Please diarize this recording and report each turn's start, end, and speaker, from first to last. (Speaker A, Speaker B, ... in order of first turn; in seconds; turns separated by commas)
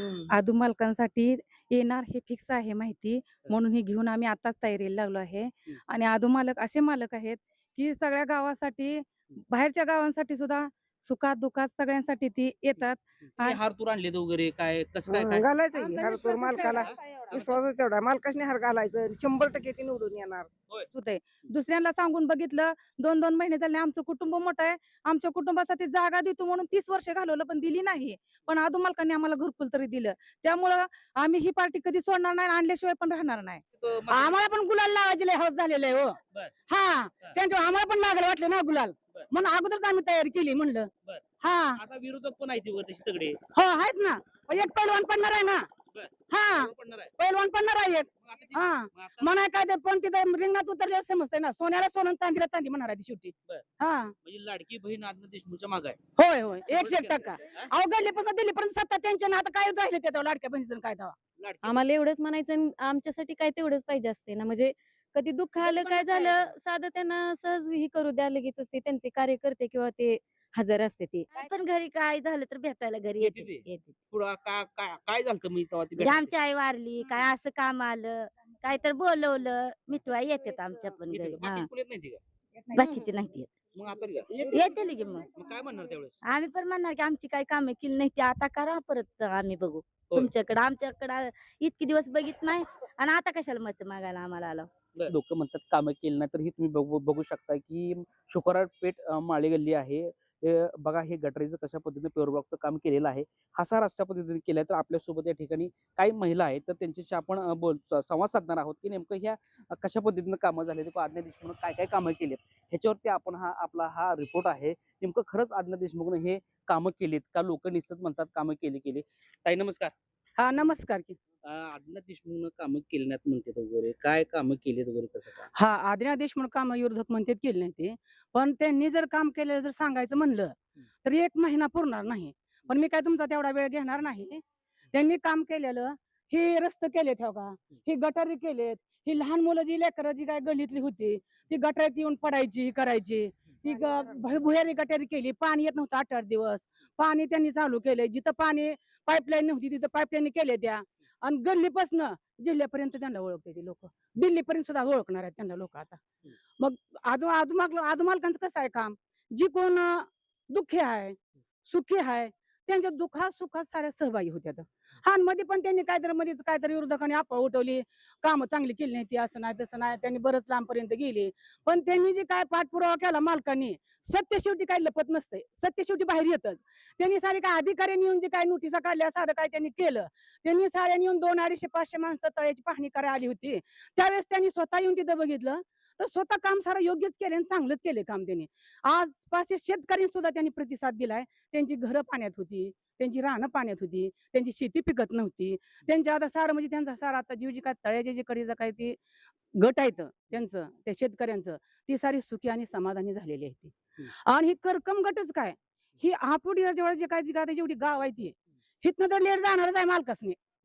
Speaker A: 0.3-13.6, Speaker B: 13.4-15.5, Speaker C: 15.1-20.5, Speaker A: 15.7-16.9, Speaker B: 16.7-17.5, Speaker A: 20.9-33.6, Speaker B: 33.8-34.4, Speaker D: 34.1-40.9, Speaker B: 41.0-43.4, Speaker D: 41.4-41.8, Speaker D: 43.5-45.7, Speaker B: 45.9-47.1, Speaker D: 46.3-54.1, Speaker B: 48.2-49.3, Speaker B: 54.2-56.0, Speaker D: 56.2-61.1, Speaker B: 56.7-57.7, Speaker B: 61.4-61.8, Speaker E: 61.6-71.3, Speaker B: 65.8-66.5, Speaker F: 71.3-74.0, Speaker B: 73.2-76.3, Speaker F: 76.0-81.7, Speaker B: 81.1-82.2, Speaker F: 82.7-83.5, Speaker B: 83.7-84.4, Speaker D: 84.3-84.8, Speaker F: 84.5-85.3, Speaker B: 85.3-86.2, Speaker F: 86.2-94.7, Speaker B: 95.0-119.9, Speaker D: 120.4-121.2, Speaker B: 121.4-125.5, Speaker D: 125.5-134.4, Speaker D: 134.9-156.0, Speaker D: 156.6-199.0, Speaker D: 199.5-210.4